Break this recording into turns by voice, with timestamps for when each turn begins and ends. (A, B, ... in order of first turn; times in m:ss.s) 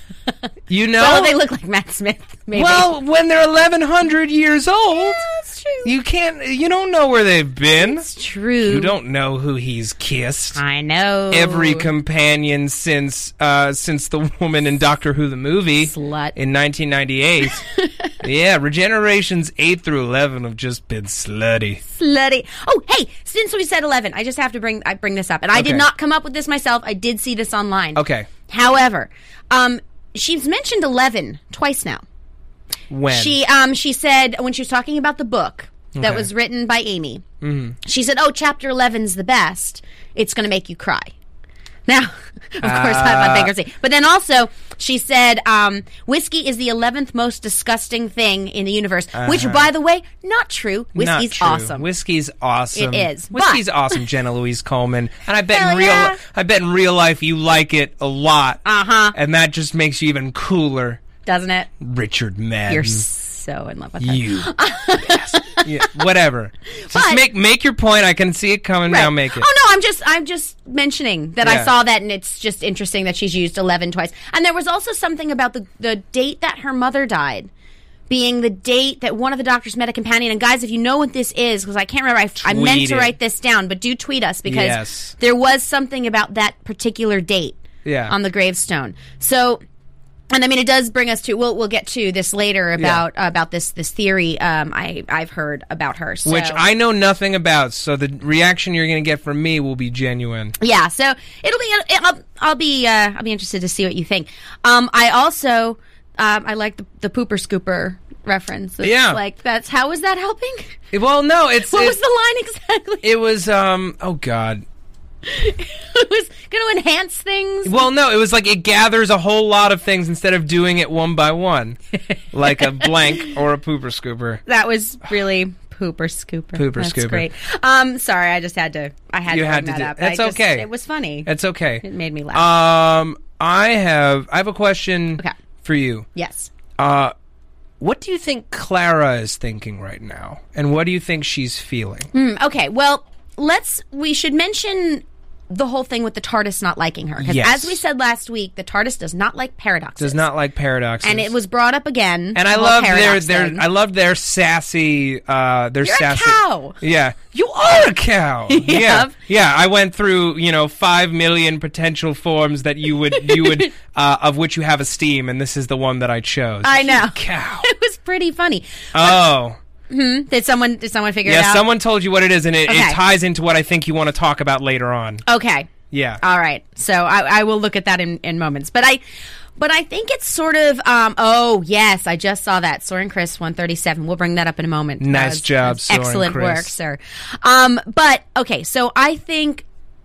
0:00.7-0:01.4 A
0:01.0-0:02.9 B
0:02.5-0:05.2 A
0:04.9-0:05.9 B
0:05.8-0:08.1 A
0:07.8-0:08.9 B
0:08.6-0:10.6 A
0:10.6-0:11.9 B
0:11.3-0:17.6 A
0:15.8-0:16.3 B
0:17.8-0:18.1 B
0:18.2-0:21.8 A
0:21.8-0:32.0 B
0:25.5-0:25.9 A
0:27.9-0:28.3 A
0:32.9-0:33.4 A
0:33.1-0:37.2 B
0:35.9-0:36.3 A
0:37.4-0:37.8 A
0:37.8-0:41.1 B
0:41.9-0:51.8 B
0:42.6-0:43.5 A
0:49.1-0:49.7 A
0:50.9-0:58.6 A
0:52.7-0:53.6 B
0:55.5-0:56.2 B
0:58.6-0:59.1 B
0:59.1-1:01.0 A
1:01.3-1:01.7 B
1:01.8-1:03.0 A
1:02.7-1:05.8 B
1:04.0-1:09.5 A
1:06.7-1:07.2 B
1:08.9-1:17.5 B
1:11.4-1:11.7 A
1:18.1-1:29.6 B
1:22.4-1:23.1 A
1:24.4-1:25.1 A
1:27.8-1:28.1 A
1:30.3-1:36.6 B
1:32.8-1:33.0 A
1:36.2-1:40.6 A
1:40.6-1:50.8 B
1:48.8-1:49.2 A
1:50.9-1:52.0 A
1:51.7-1:53.0 B
1:53.0-1:54.6 A
1:55.3-1:57.8 B
1:57.6-2:01.8 A
2:02.3-2:04.4 A
2:04.4-2:11.3 B
2:06.6-2:07.2 A
2:09.3-2:10.7 A
2:11.3-2:16.1 A
2:11.8-2:12.4 B
2:16.1-2:16.5 B
2:16.8-2:17.1 A
2:17.8-2:22.1 A
2:22.1-2:30.3 B
2:27.2-2:27.8 A
2:30.0-2:31.3 A
2:31.0-2:33.6 B
2:32.3-2:47.7 A
2:35.8-2:36.8 B
2:38.5-2:39.1 B
2:43.2-2:43.7 B
2:46.6-2:49.2 B
2:48.9-2:49.6 A
2:49.9-2:51.6 B
2:51.2-2:55.2 A
2:52.7-2:53.0 B
2:55.3-2:59.0 B
2:55.9-2:56.2 A
2:59.6-3:09.6 B
3:05.0-3:06.7 A